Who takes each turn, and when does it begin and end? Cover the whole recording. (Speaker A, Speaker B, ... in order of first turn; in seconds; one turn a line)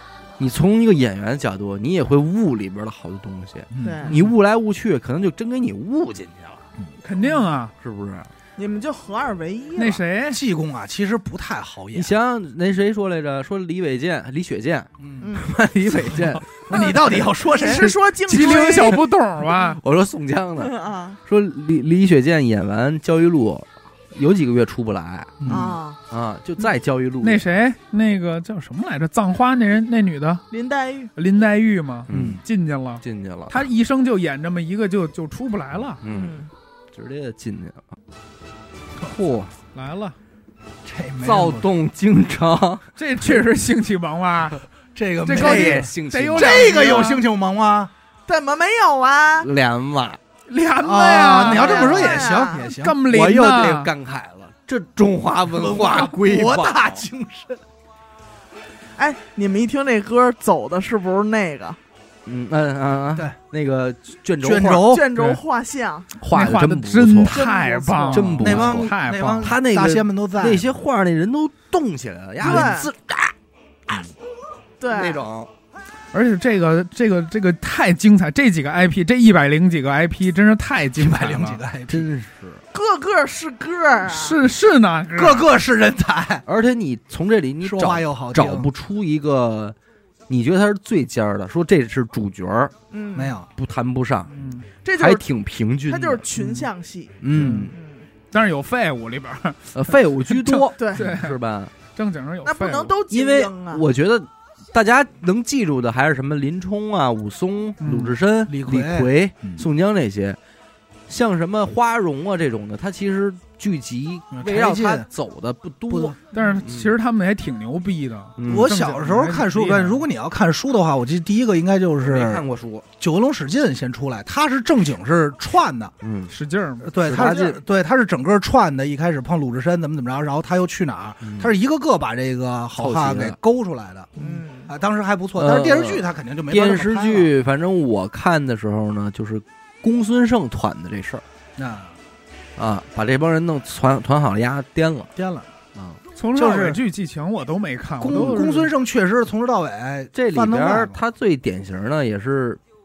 Speaker A: 0.4-6.7
Speaker B: 3.7-4.0
Speaker C: 3.8-4.1
Speaker D: 7.0-7.7
Speaker A: 7.8-8.3
Speaker C: 8.6-10.0
Speaker D: 9.8-10.4
Speaker B: 10.3-12.1
Speaker A: 11.9-16.8
Speaker C: 15.2-15.5
Speaker B: 16.7-17.9
Speaker C: 16.7-19.0
Speaker D: 18.3-19.8
Speaker A: 18.4-19.0
Speaker A: 19.8-25.6
Speaker C: 20.6-21.2
Speaker B: 25.4-25.7
Speaker C: 25.5-26.0
Speaker A: 26.1-27.4
Speaker D: 27.2-30.4
Speaker C: 30.5-31.1
Speaker D: 31.1-36.0
Speaker A: 32.1-32.4
Speaker B: 32.1-32.4
Speaker A: 33.0-33.7
Speaker A: 36.0-36.4
Speaker C: 36.0-36.5
Speaker A: 36.9-37.9
Speaker A: 39.0-39.5
Speaker D: 39.7-40.2
Speaker B: 40.8-41.6
Speaker A: 41.2-42.9
Speaker D: 43.0-44.6
Speaker B: 44.9-47.9
Speaker D: 45.2-47.2
Speaker A: 45.3-47.0
Speaker C: 48.3-49.5
Speaker A: 49.4-50.2
Speaker D: 50.5-52.2
Speaker B: 50.8-53.0
Speaker C: 51.2-52.6
Speaker D: 52.7-53.9
Speaker A: 53.1-57.0
Speaker B: 55.5-57.6
Speaker C: 59.0-61.8
Speaker A: 62.2-64.9
Speaker B: 64.4-65.1
Speaker C: 64.8-66.1
Speaker D: 65.1-65.4
Speaker A: 66.2-67.4
Speaker D: 66.3-69.5
Speaker C: 67.3-68.2
Speaker A: 68.1-73.3
Speaker B: 68.4-70.7
Speaker C: 72.4-72.9
Speaker A: 73.9-74.1
Speaker C: 74.8-75.2
Speaker A: 74.9-75.5
Speaker D: 76.1-81.6
Speaker B: 81.0-82.1
Speaker A: 81.9-82.6
Speaker C: 82.7-84.4
Speaker D: 84.0-85.5
Speaker B: 85.1-86.4
Speaker A: 86.5-89.8
Speaker B: 87.6-88.7
Speaker A: 90.3-92.7
Speaker C: 92.9-93.3
Speaker B: 93.1-93.5
Speaker A: 93.5-94.3
Speaker D: 94.3-94.7
Speaker C: 94.8-95.2
Speaker A: 95.0-96.2
Speaker C: 95.9-97.1
Speaker D: 96.4-96.7
Speaker A: 97.2-97.7
Speaker D: 97.3-97.7
Speaker C: 97.7-98.1
Speaker D: 98.3-103.0
Speaker A: 99.7-101.7
Speaker C: 100.8-101.0
Speaker C: 102.4-103.8
Speaker A: 103.1-110.4
Speaker D: 107.8-108.2
Speaker B: 108.5-109.7
Speaker A: 111.1-116.9
Speaker B: 114.3-115.1
Speaker B: 115.9-116.2
Speaker D: 116.3-120.0
Speaker A: 118.4-118.7
Speaker B: 118.5-122.4
Speaker A: 122.0-122.8
Speaker B: 123.0-125.9
Speaker A: 126.0-126.3
Speaker D: 126.3-126.9
Speaker B: 126.8-137.3
Speaker A: 127.0-127.6
Speaker A: 131.2-131.5
Speaker A: 132.8-133.3
Speaker C: 134.2-134.7
Speaker A: 135.4-141.2
Speaker B: 141.6-141.9
Speaker A: 142.6-145.1
Speaker B: 145.2-145.5
Speaker A: 145.7-146.0
Speaker D: 146.2-148.7
Speaker B: 146.3-146.8
Speaker B: 148.0-151.0
Speaker A: 150.1-152.6